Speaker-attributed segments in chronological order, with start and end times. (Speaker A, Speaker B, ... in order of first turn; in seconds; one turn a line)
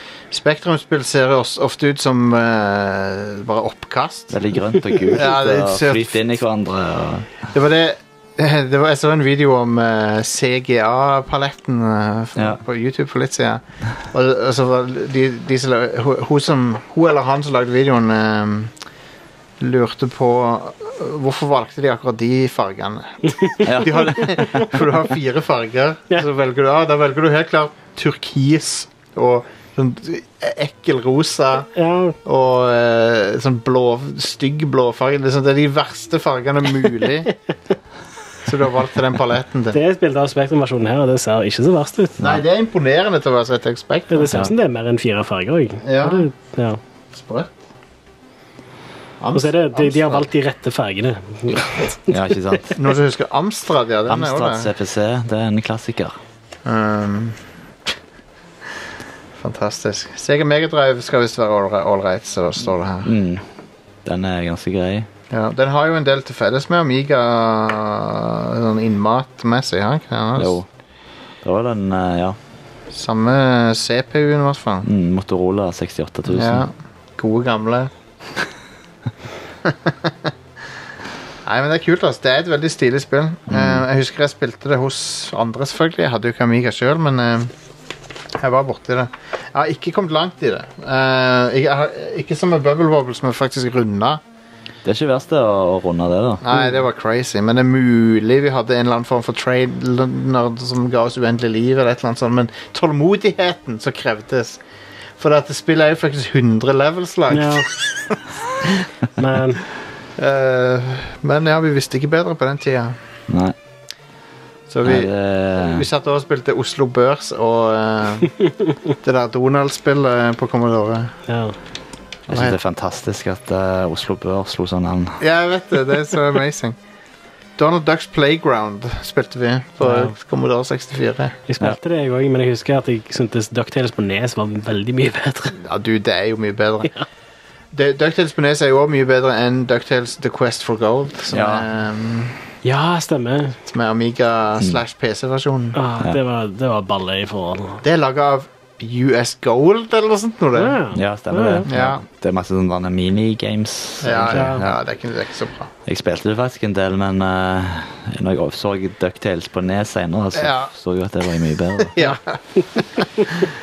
Speaker A: 0.3-4.4
Speaker B: 4.3-7.4
Speaker A: 5.0-6.2
Speaker A: 7.5-18.7
Speaker A: 19.6-31.7
Speaker B: 23.6-24.8
Speaker C: 31.8-32.2
Speaker A: 32.2-37.3
Speaker A: 38.5-39.8
Speaker C: 39.7-42.4
Speaker A: 42.2-44.3
Speaker C: 44.1-46.8
Speaker A: 45.8-46.3
Speaker A: 47.1-47.5
Speaker A: 49.2-50.3
Speaker C: 49.3-52.2
Speaker B: 52.1-52.8
Speaker A: 52.8-54.7
Speaker B: 54.1-56.2
Speaker A: 56.6-57.4
Speaker A: 59.4-63.1
Speaker B: 63.0-63.5
Speaker B: 64.0-65.1
Speaker A: 65.3-70.6
Speaker B: 70.4-70.7
Speaker B: 71.4-72.4
Speaker A: 72.9-74.9
Speaker B: 74.8-76.7
Speaker A: 76.2-77.9
Speaker A: 79.7-79.9
Speaker A: 81.5-87.5
Speaker B: 83.5-83.8
Speaker A: 88.4-94.2
Speaker B: 94.8-96.4
Speaker A: 96.4-104.6
Speaker A: 105.2-108.1
Speaker C: 107.3-107.7
Speaker C: 109.2-109.7
Speaker A: 110.2-113.0
Speaker B: 113.3-113.6
Speaker A: 114.7-118.4
Speaker B: 114.8-115.8
Speaker A: 119.0-121.1
Speaker C: 121.3-121.6
Speaker A: 122.3-122.6
Speaker B: 122.3-125.2
Speaker A: 125.2-126.8
Speaker A: 127.6-131.4
Speaker C: 129.8-130.1
Speaker C: 131.5-135.6
Speaker A: 135.6-136.9
Speaker A: 137.7-142.5
Speaker B: 141.3-141.7
Speaker C: 142.6-143.6
Speaker A: 143.7-145.8
Speaker C: 145.7-147.8
Speaker A: 147.8-150.8
Speaker C: 150.6-151.7
Speaker B: 150.9-154.8
Speaker A: 151.7-152.0
Speaker A: 154.0-155.7
Speaker C: 154.3-154.6
Speaker B: 155.8-162.0
Speaker A: 160.3-160.7
Speaker A: 161.8-163.5